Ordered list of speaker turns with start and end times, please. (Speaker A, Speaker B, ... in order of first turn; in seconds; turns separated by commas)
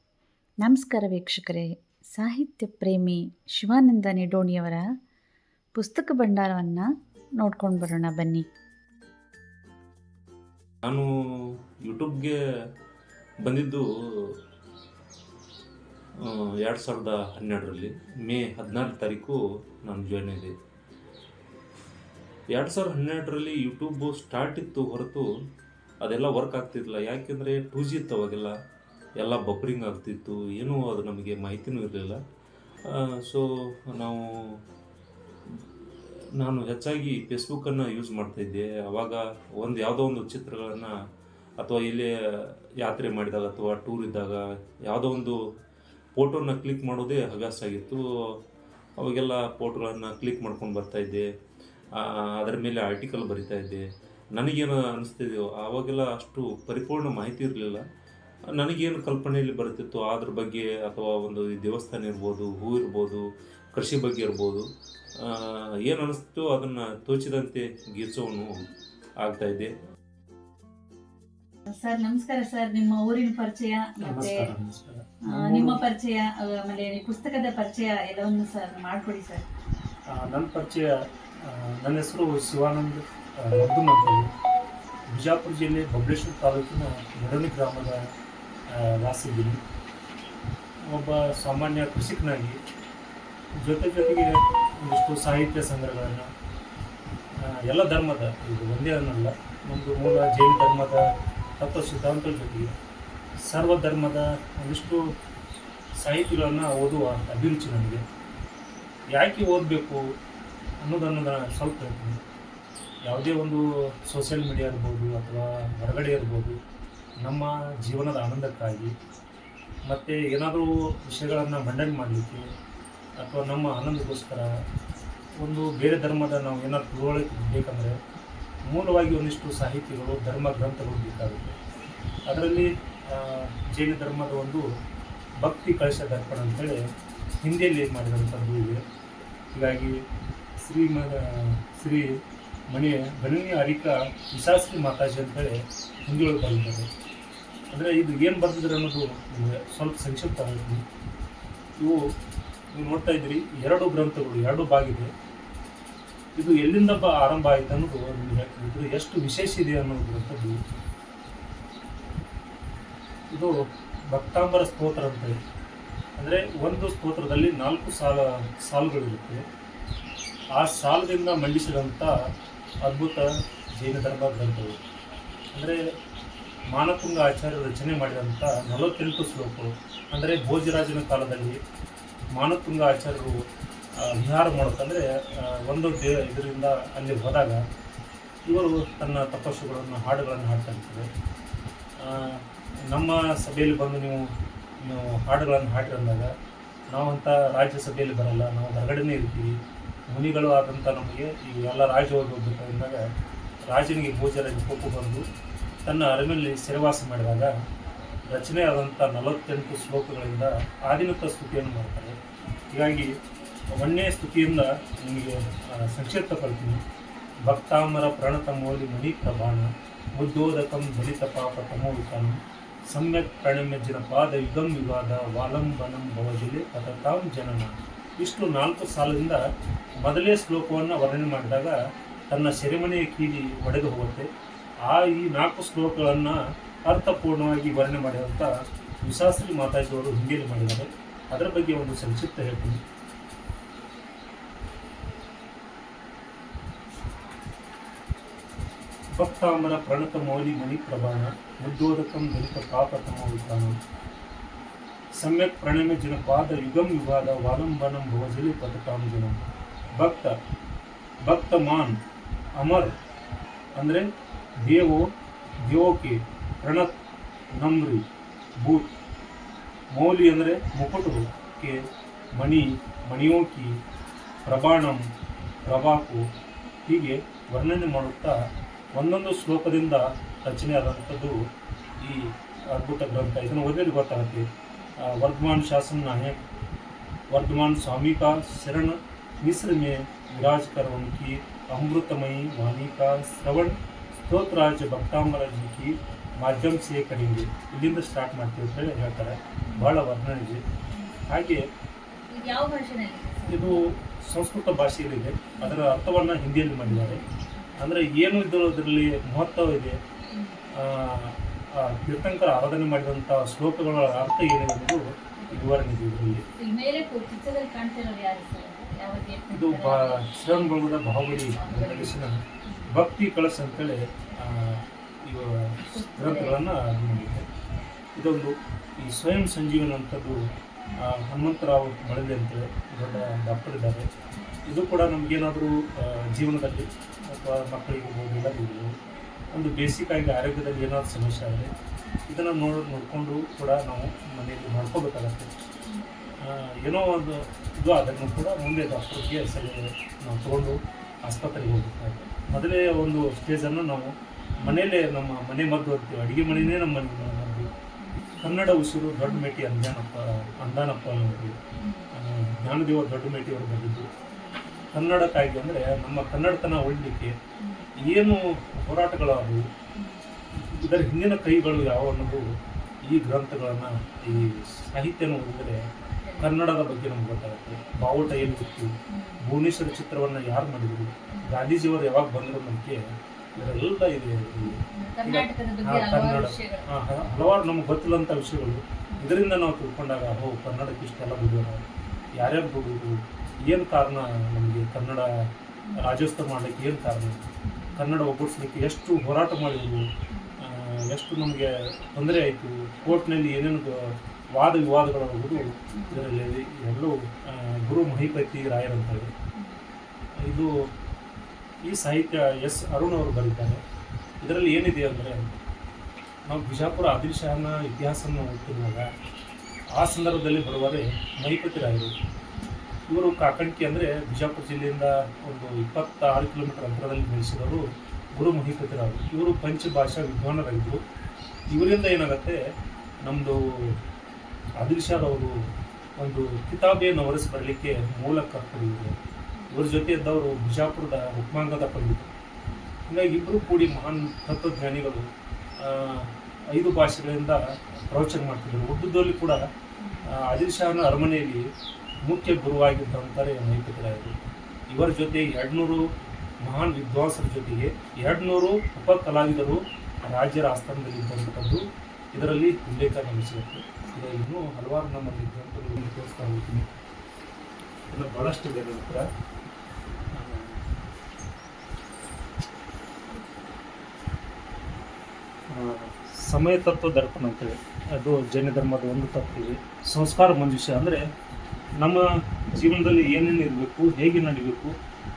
Speaker A: 0.6-4.9, Speaker A: 5.8-6.9, Speaker A: 7.4-8.5, Speaker B: 11.9-12.3, Speaker C: 13.5-13.8, Speaker B: 16.7-18.5, Speaker C: 16.7-19.4, Speaker C: 19.9-20.5, Speaker B: 22.6-25.1, Speaker C: 24.0-25.2, Speaker B: 26.1-28.2, Speaker C: 26.1-28.5, Speaker C: 29.2-32.2, Speaker C: 36.4-40.9, Speaker B: 36.4-37.4, Speaker B: 38.2-38.5, Speaker C: 41.6-42.1, Speaker C: 42.9-45.4, Speaker C: 46.2-48.0, Speaker B: 46.8-47.6, Speaker C: 49.0-51.2, Speaker C: 52.0-53.8, Speaker C: 54.4-57.8, Speaker C: 58.6-63.2, Speaker C: 63.8-64.6, Speaker B: 65.9-67.4, Speaker C: 65.9-68.5, Speaker B: 69.3-69.6, Speaker C: 69.3-69.7, Speaker A: 71.7-74.5, Speaker B: 74.0-75.8, Speaker A: 75.3-79.5, Speaker B: 80.1-80.9, Speaker B: 81.4-84.3, Speaker B: 85.1-88.0, Speaker B: 88.7-89.6, Speaker B: 90.9-92.6, Speaker B: 93.6-96.3, Speaker B: 97.4-102.7, Speaker B: 103.5-105.1, Speaker B: 106.0-108.0, Speaker B: 109.2-110.0, Speaker B: 110.8-112.2, Speaker B: 113.1-116.6, Speaker B: 117.2-118.9, Speaker B: 119.9-122.5, Speaker B: 123.2-124.5, Speaker B: 125.4-128.0, Speaker B: 128.7-131.6, Speaker B: 132.3-134.7, Speaker B: 135.4-136.8, Speaker B: 137.4-138.8, Speaker B: 139.5-140.0, Speaker B: 140.6-142.1, Speaker B: 142.7-146.9, Speaker B: 147.7-150.8, Speaker B: 152.7-155.1, Speaker B: 156.4-160.6, Speaker B: 163.3-165.4, Speaker B: 166.2-169.4, Speaker B: 170.6-172.2, Speaker B: 172.8-174.8, Speaker B: 176.7-181.6, Speaker B: 182.3-183.4, Speaker B: 184.0-187.6, Speaker B: 188.5-191.1, Speaker B: 192.0-196.3, Speaker B: 196.9-199.5, Speaker B: 200.1-203.1, Speaker B: 203.7-205.2, Speaker B: 205.8-207.5, Speaker B: 208.3-212.2, Speaker B: 212.7-213.2, Speaker B: 213.7-216.8, Speaker B: 217.5-222.4, Speaker B: 222.9-229.4, Speaker B: 230.0-231.8, Speaker B: 232.3-234.3, Speaker B: 234.8-238.5, Speaker B: 239.0-242.8, Speaker B: 249.2-253.8, Speaker B: 255.2-259.4, Speaker B: 260.0-260.4, Speaker B: 261.2-262.0, Speaker B: 262.6-262.9, Speaker B: 263.8-264.1, Speaker B: 264.6-265.1, Speaker B: 265.7-266.9, Speaker B: 267.6-268.1, Speaker B: 268.6-268.9, Speaker B: 269.9-271.8, Speaker B: 272.4-273.8, Speaker B: 274.4-275.0, Speaker B: 275.7-276.2, Speaker B: 276.9-278.4, Speaker B: 278.9-281.4, Speaker B: 282.0-286.4, Speaker B: 287.3-300.6, Speaker B: 301.3-301.7, Speaker A: 302.2-303.9, Speaker B: 303.5-307.2, Speaker A: 305.6-306.0, Speaker B: 307.8-310.0, Speaker A: 310.3-310.6, Speaker B: 310.7-316.4, Speaker A: 315.4-315.7, Speaker A: 316.6-320.2, Speaker B: 319.5-327.5, Speaker A: 321.4-322.9, Speaker A: 325.9-326.6, Speaker B: 328.2-334.1, Speaker B: 334.7-338.9, Speaker B: 339.5-341.7, Speaker B: 342.3-345.5, Speaker B: 346.4-357.7, Speaker A: 352.3-352.6, Speaker A: 358.0-358.4, Speaker B: 358.4-361.6, Speaker A: 361.8-362.1, Speaker B: 362.1-364.1, Speaker A: 364.3-364.9, Speaker B: 364.9-367.4, Speaker A: 367.6-367.9, Speaker B: 368.0-369.6, Speaker A: 369.9-370.2, Speaker B: 370.5-372.5, Speaker B: 373.1-375.9, Speaker A: 376.2-376.5, Speaker B: 376.4-383.0, Speaker A: 379.1-379.4, Speaker B: 383.6-395.3, Speaker A: 384.6-386.9, Speaker A: 392.1-392.4, Speaker A: 395.9-396.1, Speaker B: 395.9-400.1, Speaker A: 397.6-398.0, Speaker A: 400.3-400.6, Speaker B: 400.6-409.3, Speaker A: 405.6-406.2, Speaker B: 410.5-410.7, Speaker B: 411.9-413.8, Speaker B: 414.4-415.5, Speaker B: 416.5-419.1, Speaker B: 420.0-422.1, Speaker B: 423.1-427.8, Speaker B: 428.4-431.0, Speaker B: 431.7-432.6, Speaker B: 433.2-434.0, Speaker B: 434.8-435.5, Speaker B: 436.2-439.1, Speaker B: 439.7-442.3, Speaker B: 443.1-445.3, Speaker B: 445.8-449.6, Speaker A: 450.0-450.3, Speaker B: 450.2-451.6, Speaker B: 452.3-454.3, Speaker B: 454.9-456.0, Speaker B: 456.6-466.9, Speaker B: 468.1-469.3, Speaker B: 470.3-470.8, Speaker B: 475.7-481.2, Speaker B: 482.0-484.9